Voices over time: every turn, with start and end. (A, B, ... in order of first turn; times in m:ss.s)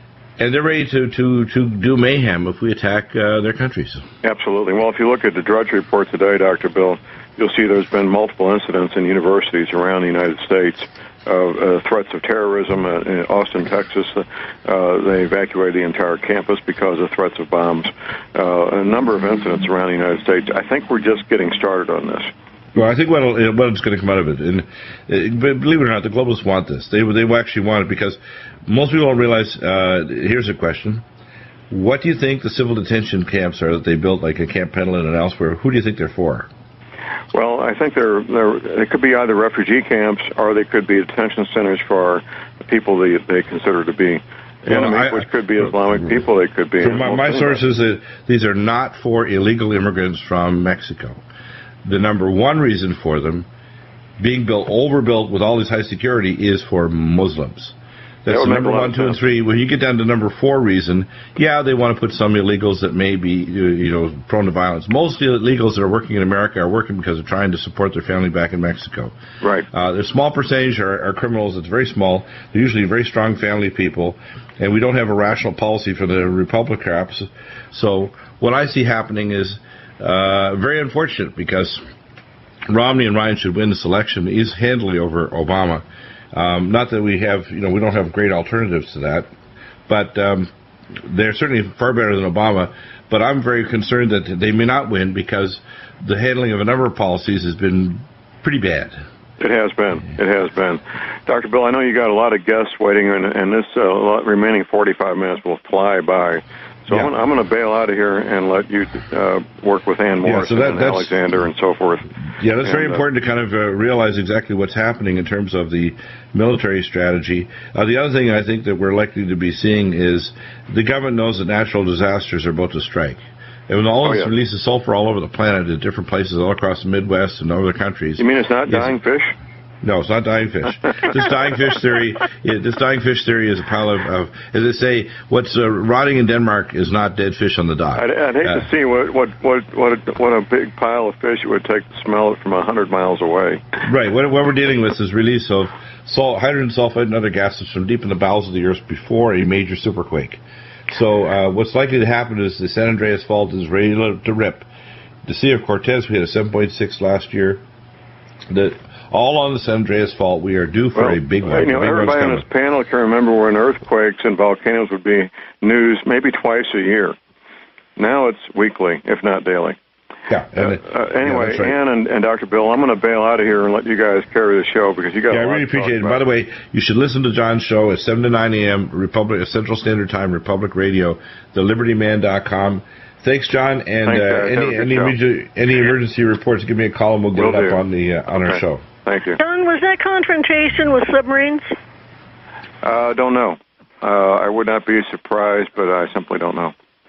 0:00.4-0:04.0 A
0:04.2-0:22.3 B
0:22.7-0:31.0 A
0:31.7-0:36.5 A
0:37.3-0:47.6 B
0:44.7-0:45.3 A
0:46.8-0:51.2 A
0:51.8-0:53.5 A
0:54.2-1:09.1 A
0:58.3-0:59.2 B
1:09.4-1:09.7 B
1:09.7-1:21.8 A
1:22.7-1:29.3 A
1:29.9-1:39.0 A
1:39.4-1:52.1 B
1:50.2-1:51.1 A
1:52.4-2:08.9 A
1:52.6-1:53.0 B
2:04.0-2:04.3 B
2:08.2-2:09.3 B
2:09.8-2:18.6 A
2:18.0-2:23.6 B
2:23.8-2:34.7 A
2:35.2-2:37.6 A
2:38.5-2:42.4 A
2:40.9-2:47.2 B
2:48.0-2:49.8 B
2:50.3-2:51.7 A
2:50.6-2:56.2 B
2:55.3-3:08.8 A
3:04.0-3:05.2 B
3:07.3-3:07.8 B
3:08.3-3:09.4 B
3:09.4-3:11.7 C
3:12.8-3:16.7 B